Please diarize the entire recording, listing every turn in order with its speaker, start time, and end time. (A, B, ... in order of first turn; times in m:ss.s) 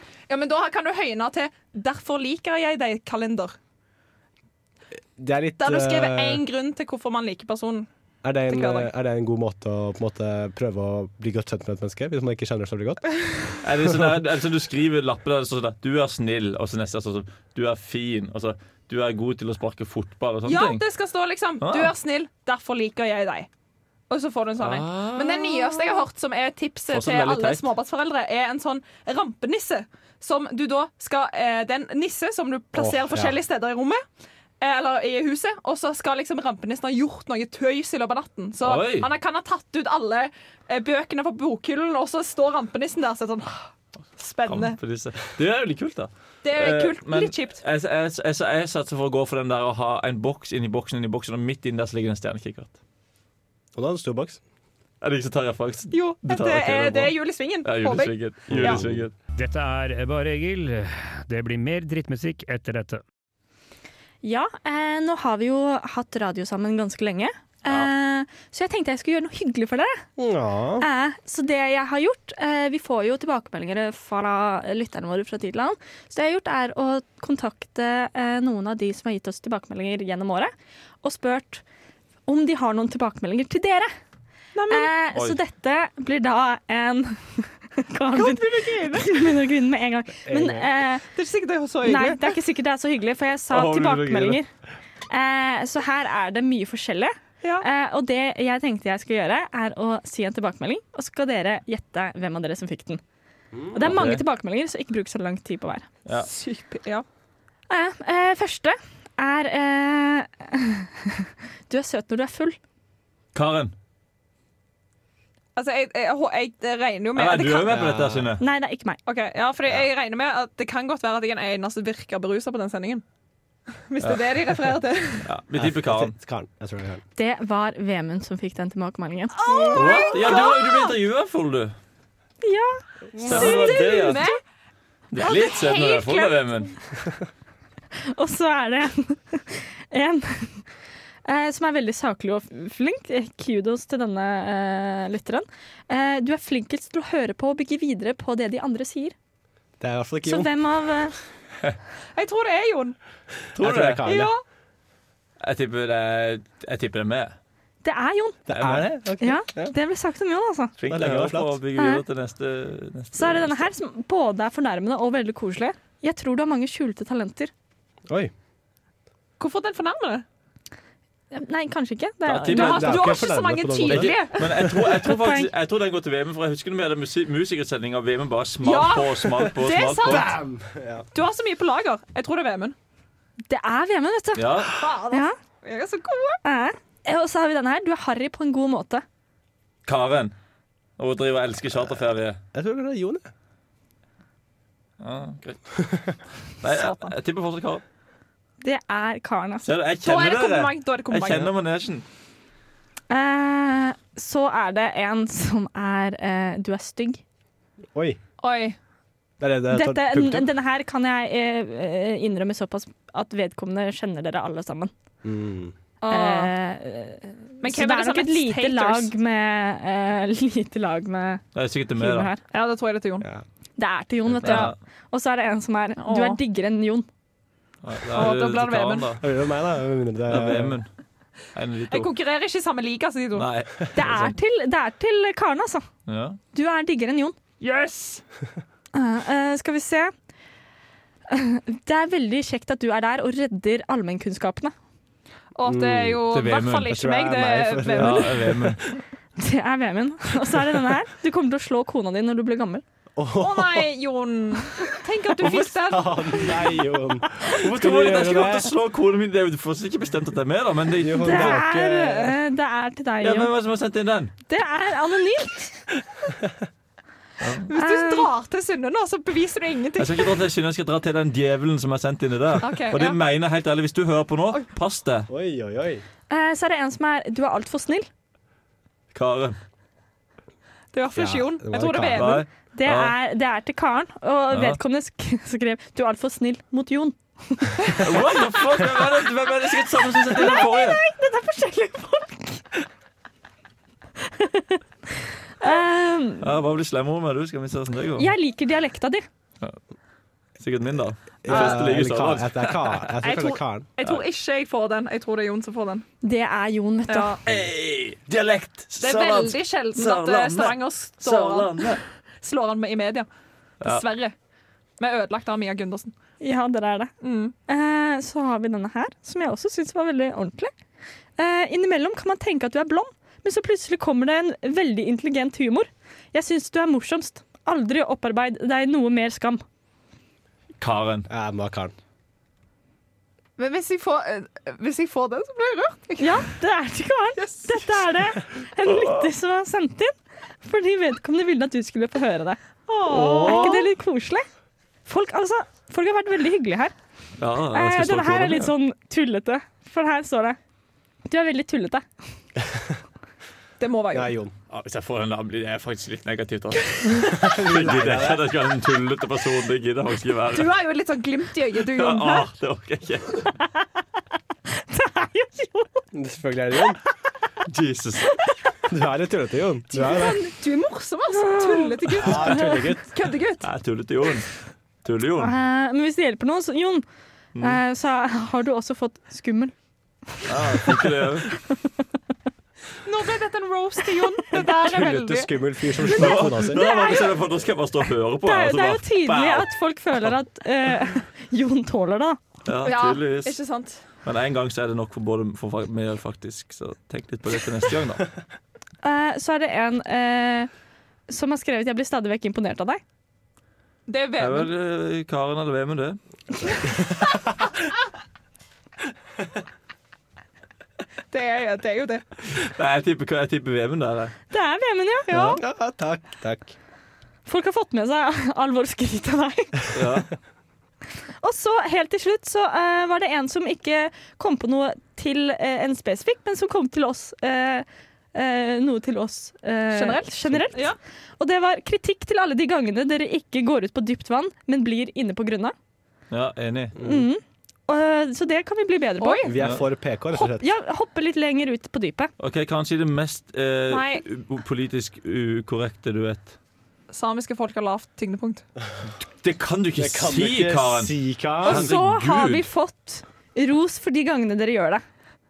0:00.3-0:03.6 A
0:05.2-0:06.4 B
0:05.6-0:07.9 A
0:08.2-0:13.2 B
0:08.5-0:08.9 A
0:13.6-0:20.8 C
0:13.8-0:14.1 B
0:20.4-0:23.5 A
0:21.6-0:21.9 C
0:24.1-0:34.0 A
0:24.6-0:26.0 C
0:26.9-0:27.6 C
0:32.7-0:33.4 B
0:34.6-0:44.8 A
0:38.6-0:39.1 C
0:44.4-0:52.7 C
0:46.4-0:47.6 A
0:53.7-0:54.4 B
0:55.0-0:59.1 C
0:55.9-0:58.8 A
0:58.5-0:59.0 B
0:59.4-1:03.0 D
1:04.2-1:10.0 E
1:10.2-1:10.8 B
1:10.8-1:20.5 E
1:21.0-1:21.6 E
1:22.3-1:23.9 E
1:24.5-1:24.9 A
1:24.7-1:31.1 E
1:28.1-1:29.2 A
1:30.2-1:30.7 B
1:31.1-1:32.3 A
1:31.8-1:34.5 E
1:33.5-1:34.4 C
1:35.1-1:43.0 E
1:43.5-1:43.9 B
1:43.7-1:45.9 E
1:43.8-1:44.2 C
1:46.2-1:47.0 A
1:47.7-1:52.6 E
1:53.3-1:53.7 C
1:55.6-1:57.9 A
1:57.1-1:58.4 C
1:57.7-1:58.3 B
1:58.4-1:59.0 E
1:59.0-2:03.0 A
2:03.9-2:05.3 A
2:04.0-2:06.1 C
2:05.5-2:07.0 B
2:07.2-2:09.8 E
2:09.3-2:10.9 A
2:09.5-2:09.9 B
2:09.7-2:11.8 C
2:12.4-2:12.8 E
2:13.1-2:13.8 B
2:13.2-2:14.2 C
2:13.2-2:14.4 A
2:15.1-2:16.7 C
2:15.2-2:16.6 A
2:18.1-2:20.6 E
2:21.2-2:29.1 E
2:29.8-2:30.5 B
2:30.2-2:31.2 E
2:32.1-2:33.0 A
2:33.5-2:34.0 C
2:33.6-2:34.3 B
2:34.0-2:34.4 A
2:35.4-2:37.4 C
2:37.8-2:38.4 E
2:38.5-2:39.7 B
2:38.5-2:38.9 C
2:39.2-2:40.7 E
2:40.8-2:43.7 C
2:40.9-2:41.6 B
2:41.8-2:42.0 E
2:43.1-2:47.5 E
2:49.4-2:50.2 A
2:51.3-2:52.9 E
2:52.2-2:53.1 C
2:52.5-2:54.7 A
2:52.6-2:54.2 B
2:53.8-3:00.3 C
2:54.8-2:55.5 E
2:58.6-3:00.3 A
3:00.0-3:01.1 B
3:01.1-3:02.7 A
3:03.5-3:04.5 E
3:04.4-3:04.8 C
3:04.7-3:06.4 A
3:06.4-3:09.0 E
3:09.8-3:10.3 C
3:11.0-3:12.4 C
3:12.5-3:13.3 B
3:15.0-3:17.8 C
3:16.7-3:17.1 A
3:18.6-3:19.7 E
3:19.6-3:22.0 C
3:20.0-3:21.5 A
3:23.1-3:27.2 E
3:27.9-3:28.2 B
3:28.4-3:28.8 A
3:29.4-3:30.5 B
3:29.7-3:34.9 E
3:35.2-3:35.7 B
3:36.0-3:36.5 A
3:36.1-3:41.4 E
3:37.6-3:39.1 A
3:41.5-3:42.3 C
3:41.9-3:42.4 E
3:42.5-3:43.3 A
3:43.8-3:47.1 E
3:44.3-3:44.6 B
3:44.4-3:44.8 C
3:46.0-3:46.4 A
3:47.8-3:49.2 C
3:48.1-3:49.1 A
3:49.2-3:50.8 B
3:50.3-3:50.9 C
3:51.5-3:52.1 C
3:51.9-3:53.5 A
3:53.3-3:54.3 C
3:53.9-3:55.8 E
3:56.1-3:56.4 C
3:56.5-3:57.4 E
3:57.6-3:58.2 A
3:58.9-4:00.1 E
4:01.3-4:04.7 E
4:05.5-4:08.6 A
4:05.6-4:06.2 B
4:06.3-4:07.0 C
4:06.8-4:08.8 B
4:08.0-4:08.8 C
4:09.4-4:12.8 E
4:13.2-4:13.9 B
4:13.4-4:16.6 A
4:15.4-4:18.7 B
4:17.4-4:21.6 C
4:20.9-4:22.4 B
4:21.2-4:23.5 E
4:23.2-4:24.3 C
4:24.5-4:25.8 E
4:27.4-4:27.7 C
4:27.7-4:30.3 A
4:27.7-4:28.3 E
4:30.0-4:35.3 C
4:32.6-4:33.2 A
4:35.3-4:36.0 B
4:36.3-4:38.1 E
4:39.1-4:39.6 C
4:40.9-4:42.4 A
4:41.1-4:42.4 B
4:42.1-4:43.1 C
4:42.7-4:47.7 E
4:44.5-4:44.8 C
4:48.0-4:51.0 C
4:50.3-4:52.6 E
4:54.2-4:54.8 E
4:55.6-4:56.5 E
4:56.4-4:58.3 C
4:58.2-4:59.2 E
5:00.6-5:03.1 C
5:01.4-5:03.9 B
5:01.5-5:01.7 A
5:03.2-5:06.0 A
5:06.2-5:07.4 E
5:07.1-5:07.4 A
5:07.4-5:12.0 C
5:09.0-5:13.3 A
5:13.8-5:14.3 A
5:15.0-5:16.1 A
5:16.4-5:17.1 E
5:17.2-5:17.5 A
5:17.7-5:20.7 E
5:21.4-5:29.6 E
5:30.8-5:31.3 C
5:31.3-5:31.9 B
5:33.6-5:36.4 A
5:36.2-5:44.4 E
5:37.4-5:37.8 A
5:38.8-5:39.3 C
5:42.9-5:43.9 A
5:43.0-5:43.8 C
5:45.0-5:46.9 E
5:47.4-5:48.7 C
5:47.7-5:50.6 E
5:51.3-5:52.0 E
5:53.8-5:54.3 A
5:54.1-5:54.5 B
5:54.7-6:00.7 C
5:57.2-5:58.6 B
6:00.5-6:02.5 A
6:01.8-6:03.5 C
6:04.7-6:06.0 E
6:06.1-6:07.0 B
6:07.6-6:08.3 C
6:08.9-6:10.4 B
6:09.9-6:13.6 A
6:11.3-6:12.7 E
6:12.2-6:13.1 B
6:13.6-6:14.5 C
6:15.0-6:15.5 C
6:15.4-6:17.0 E
6:17.5-6:17.8 C
6:17.6-6:19.7 E
6:20.3-6:20.9 E
6:20.4-6:21.5 C
6:23.0-6:25.5 A
6:24.5-6:26.8 B
6:26.1-6:29.7 C
6:26.8-6:27.3 E
6:28.4-6:32.4 E
6:32.6-6:33.6 C
6:32.8-6:34.0 A
6:34.2-6:38.3 C
6:39.0-6:40.7 E
6:41.3-6:43.0 E
6:44.1-6:44.7 A
6:44.4-6:46.2 C
6:51.3-6:52.2 A
6:52.5-6:54.4 C
6:54.5-6:55.6 E
6:55.3-6:56.7 B
6:57.5-6:59.8 E
6:59.9-7:00.3 C
7:01.4-7:15.7 E
7:09.9-7:11.0 A
7:16.3-7:17.0 C
7:17.0-7:17.3 B
7:17.0-7:19.5 E
7:19.2-7:19.6 A
7:19.4-7:20.6 B
7:20.3-7:22.3 E
7:22.4-7:26.5 C
7:23.9-7:24.2 A
7:27.1-7:28.6 A
7:29.2-7:32.6 C
7:29.9-7:31.9 B
7:31.6-7:35.0 E